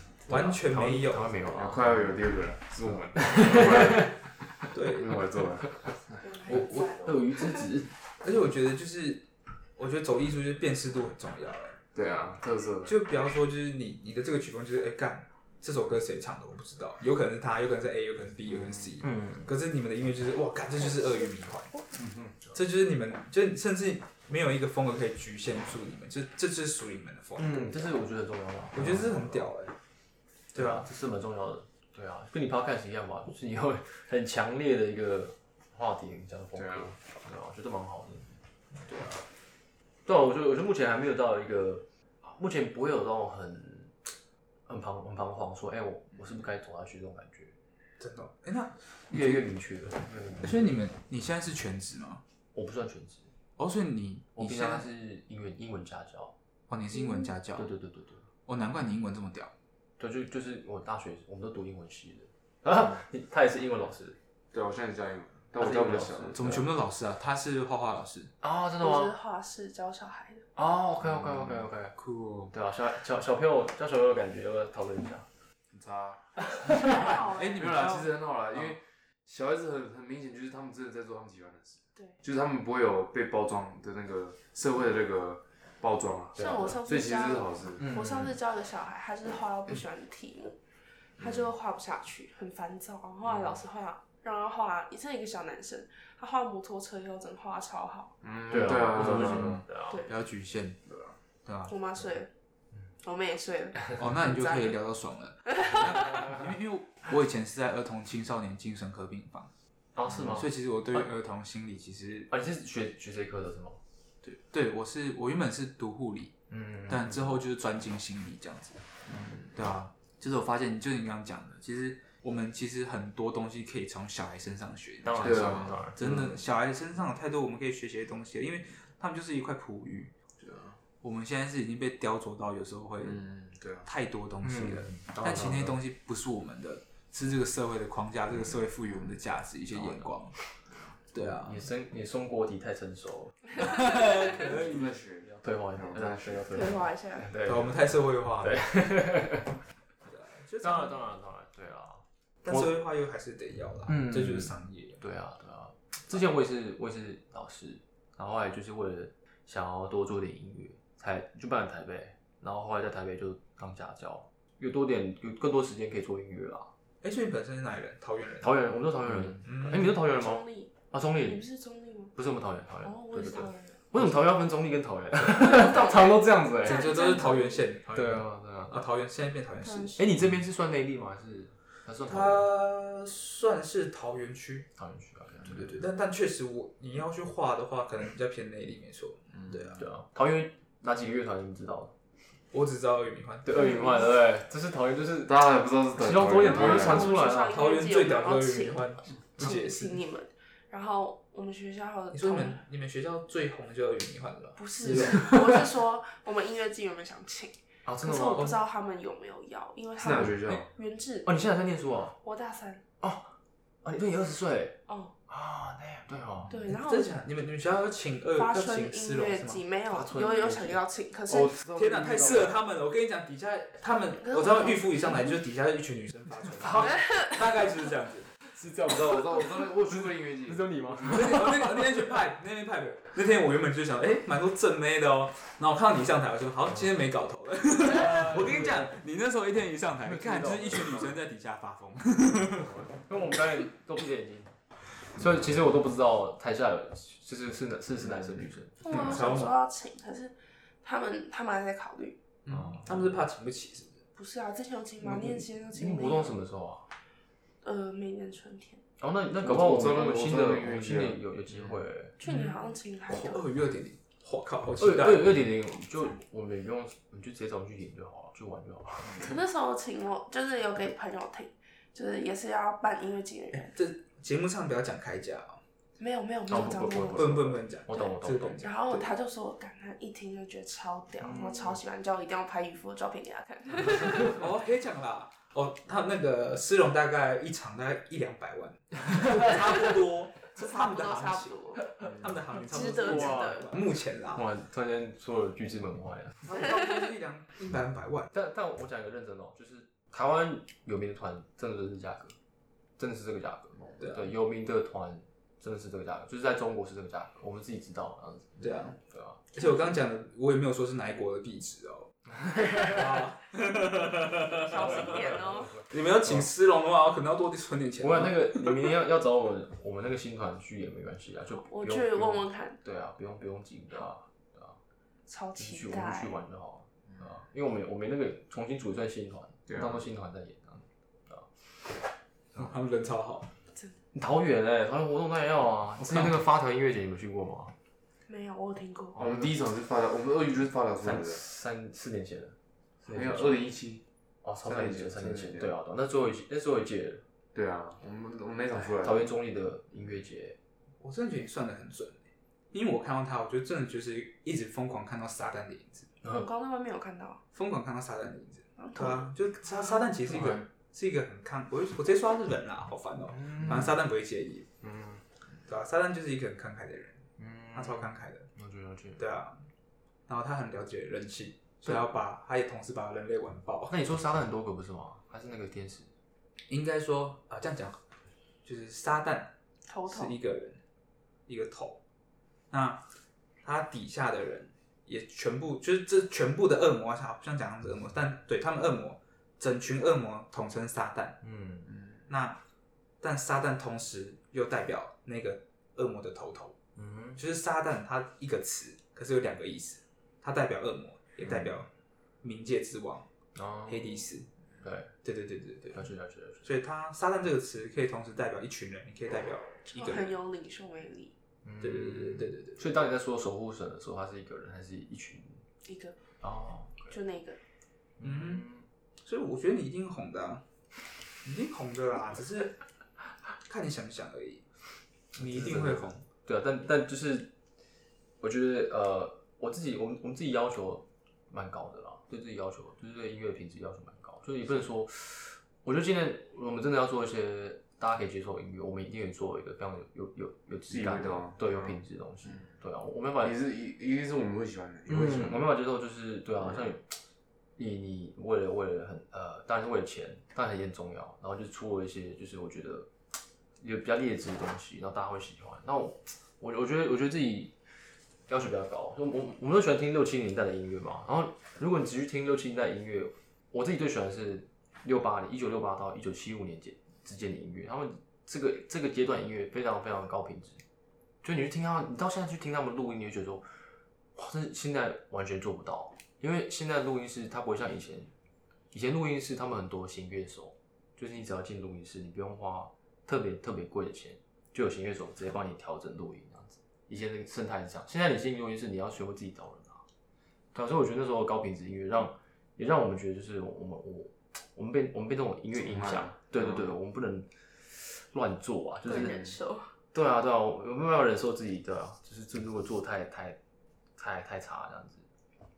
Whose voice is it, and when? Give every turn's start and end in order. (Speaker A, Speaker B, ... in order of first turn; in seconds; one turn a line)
Speaker A: 0.3-1.3
Speaker B: 0.3-2.2
Speaker C: 1.5-4.2
Speaker B: 3.2-4.0
Speaker A: 4.7-5.3
Speaker C: 4.9-6.2
Speaker D: 6.2-7.7
Speaker B: 6.5-7.9
Speaker A: 8.2-11.8
Speaker C: 11.9-13.0
Speaker A: 12.8-21.8
Speaker C: 18.5-18.9
Speaker B: 19.0-19.5
Speaker C: 21.9-22.4
Speaker A: 22.5-27.9
Speaker B: 27.4-29.5
Speaker A: 28.7-29.8
Speaker A: 30.5-30.9
Speaker B: 30.5-38.4
Speaker C: 36.5-36.9
Speaker A: 38.8-39.2
Speaker B: 40.0-44.2
Speaker B: 44.7-47.5
Speaker A: 48.0-49.5
Speaker B: 49.1-50.7
Speaker A: 50.4-52.2
Speaker B: 52.5-53.3
Speaker A: 53.6-54.9
Speaker B: 54.4-56.3
Speaker A: 56.7-57.7
Speaker D: 56.9-57.3
Speaker B: 57.5-58.2
Speaker A: 58.5-59.5
Speaker B: 60.0-64.2
Speaker C: 64.5-66.6
Speaker B: 65.6-66.6
Speaker A: 66.3-68.3
Speaker B: 68.4-69.1
Speaker D: 68.8-70.5
Speaker B: 70.6-72.0
Speaker C: 71.0-72.5
Speaker B: 72.5-75.3
Speaker C: 75.7-87.9
Speaker B: 76.5-77.0
Speaker A: 76.8-78.1
Speaker D: 76.9-77.8
Speaker D: 86.4-90.6
Speaker B: 87.8-88.3
Speaker D: 91.2-98.1
Speaker C: 93.3-93.6
Speaker C: 98.2-99.7
Speaker B: 98.5-100.0
Speaker A: 99.0-100.8
Speaker C: 100.9-101.2
Speaker A: 101.5-101.8
Speaker D: 101.7-102.3
Speaker D: 103.0-104.8
Speaker A: 104.0-109.5
Speaker D: 105.6-106.2
Speaker B: 110.0-111.1
Speaker A: 110.2-112.3
Speaker B: 112.3-113.8
Speaker A: 114.2-116.3
Speaker B: 116.5-117.4
Speaker A: 116.9-118.8
Speaker C: 119.1-119.5
Speaker A: 119.5-130.1
Speaker B: 125.0-126.0
Speaker C: 125.2-126.4
Speaker C: 130.4-130.8
Speaker A: 131.0-133.2
Speaker C: 133.0-133.9
Speaker A: 133.8-140.4
Speaker B: 134.4-135.7
Speaker B: 139.7-140.1
Speaker C: 140.7-141.0
Speaker A: 141.1-141.7
Speaker B: 141.2-143.4
Speaker A: 143.6-145.0
Speaker C: 144.2-146.7
Speaker B: 145.3-149.6
Speaker D: 146.5-147.3
Speaker A: 147.4-148.8
Speaker A: 150.0-151.0
Speaker B: 150.6-152.7
Speaker A: 152.4-155.0
Speaker B: 153.9-166.7
Speaker A: 167.0-168.6
Speaker B: 168.4-171.5
Speaker A: 169.4-170.0
Speaker D: 169.7-172.1
Speaker B: 172.2-176.9
Speaker D: 172.8-173.8
Speaker D: 175.3-177.7
Speaker A: 176.6-180.1
Speaker B: 177.9-178.8
Speaker D: 179.6-180.0
Speaker B: 180.0-182.5
Speaker A: 182.1-184.7
Speaker B: 184.8-185.8
Speaker A: 185.5-189.8
Speaker C: 189.3-189.8
Speaker B: 189.8-191.9
Speaker A: 192.5-194.0
Speaker B: 193.4-195.4
Speaker D: 193.6-194.1
Speaker C: 195.2-197.1
Speaker B: 195.9-197.6
Speaker D: 196.4-202.6
Speaker A: 197.5-200.0
Speaker A: 202.1-205.2
Speaker D: 204.6-211.3
Speaker B: 207.8-208.6
Speaker C: 210.0-210.7
Speaker B: 211.2-212.2
Speaker D: 212.2-212.8
Speaker B: 213.0-214.8
Speaker D: 214.9-215.1
Speaker B: 215.3-216.6
Speaker D: 216.5-217.2
Speaker A: 216.7-219.6
Speaker D: 218.4-221.6
Speaker B: 219.9-220.8
Speaker B: 221.3-222.5
Speaker C: 221.6-222.5
Speaker A: 221.6-228.3
Speaker D: 224.2-225.3
Speaker B: 226.6-226.9
Speaker D: 226.9-227.3
Speaker B: 228.5-229.3
Speaker C: 228.8-230.6
Speaker B: 229.9-231.8
Speaker A: 231.1-242.7
Speaker B: 237.9-238.9
Speaker B: 240.0-241.2
Speaker B: 242.6-249.4
Speaker D: 248.8-252.2
Speaker A: 248.9-249.6
Speaker A: 252.5-254.0
Speaker B: 252.5-252.9
Speaker D: 254.2-256.4
Speaker B: 255.0-256.9
Speaker D: 257.6-258.8
Speaker B: 259.0-262.2
Speaker C: 259.4-261.8
Speaker D: 262.2-263.4
Speaker A: 262.2-265.4
Speaker B: 264.8-269.3
Speaker D: 269.2-273.7
Speaker A: 273.5-275.6
Speaker D: 276.0-277.4
Speaker B: 276.5-278.6
Speaker A: 277.1-279.1
Speaker D: 278.6-284.4
Speaker B: 281.2-281.8
Speaker A: 284.2-294.4
Speaker D: 290.6-291.9
Speaker C: 292.1-292.4
Speaker D: 292.6-293.7
Speaker B: 293.0-293.7
Speaker B: 294.3-296.4
Speaker A: 296.4-298.3
Speaker B: 298.3-302.4
Speaker B: 303.0-309.4
Speaker A: 304.0-304.3
Speaker A: 308.6-309.0
Speaker A: 309.5-318.7
Speaker B: 312.4-313.0
Speaker D: 314.5-315.8
Speaker B: 314.8-316.5
Speaker B: 318.0-324.8
Speaker D: 321.7-322.8
Speaker D: 325.3-326.4
Speaker B: 325.6-331.5
Speaker C: 329.7-330.0
Speaker A: 332.5-333.5
Speaker B: 334.1-337.7
Speaker D: 338.3-339.2
Speaker B: 339.1-339.5
Speaker C: 339.2-341.4
Speaker B: 341.0-343.7
Speaker C: 343.1-344.0
Speaker B: 344.4-347.2
Speaker C: 344.6-345.7
Speaker C: 347.5-349.3
Speaker B: 348.9-350.6
Speaker A: 351.0-356.1
Speaker D: 356.3-357.4
Speaker A: 357.5-364.7
Speaker D: 358.8-359.3
Speaker B: 360.3-360.6
Speaker B: 363.3-364.0
Speaker B: 364.8-365.2
Speaker A: 365.6-367.2
Speaker B: 367.4-369.2
Speaker A: 367.7-368.5
Speaker A: 369.2-369.6
Speaker A: 370.3-373.9
Speaker B: 373.9-376.1
Speaker A: 376.7-378.0
Speaker A: 378.6-379.5
Speaker D: 379.9-380.4
Speaker A: 380.1-380.8
Speaker A: 381.5-382.0
Speaker A: 382.7-383.0
Speaker A: 383.6-391.4
Speaker B: 391.4-391.9
Speaker C: 391.9-392.2
Speaker A: 392.3-392.6
Speaker A: 393.2-396.8
Speaker B: 397.0-397.4
Speaker A: 397.4-401.9
Speaker A: 402.4-403.3
Speaker B: 403.6-404.3
Speaker A: 403.9-404.5
Speaker B: 404.8-405.1
Speaker A: 405.2-406.1
Speaker B: 405.9-406.7
Speaker A: 406.6-410.4
Speaker D: 409.9-411.3
Speaker B: 411.6-415.6
Speaker A: 411.8-413.0
Speaker D: 415.9-416.2
Speaker B: 416.4-417.1
Speaker D: 417.1-417.6
Speaker B: 418.2-418.9
Speaker A: 418.2-418.7
Speaker A: 419.2-420.6
Speaker A: 421.4-422.8
Speaker A: 423.6-424.7
Speaker A: 425.4-426.2
Speaker B: 425.4-427.5
Speaker B: 428.4-443.6
Speaker C: 440.9-442.0
Speaker C: 443.4-445.7
Speaker B: 445.1-447.2
Speaker B: 447.8-453.1
Speaker B: 453.8-457.8
Speaker B: 458.5-470.8
Speaker B: 471.4-473.8
Speaker B: 474.4-478.3
Speaker B: 478.9-490.0
Speaker B: 490.7-499.4
Speaker C: 495.8-496.9
Speaker D: 499.1-499.9
Speaker B: 500.1-503.6
Speaker B: 504.2-505.2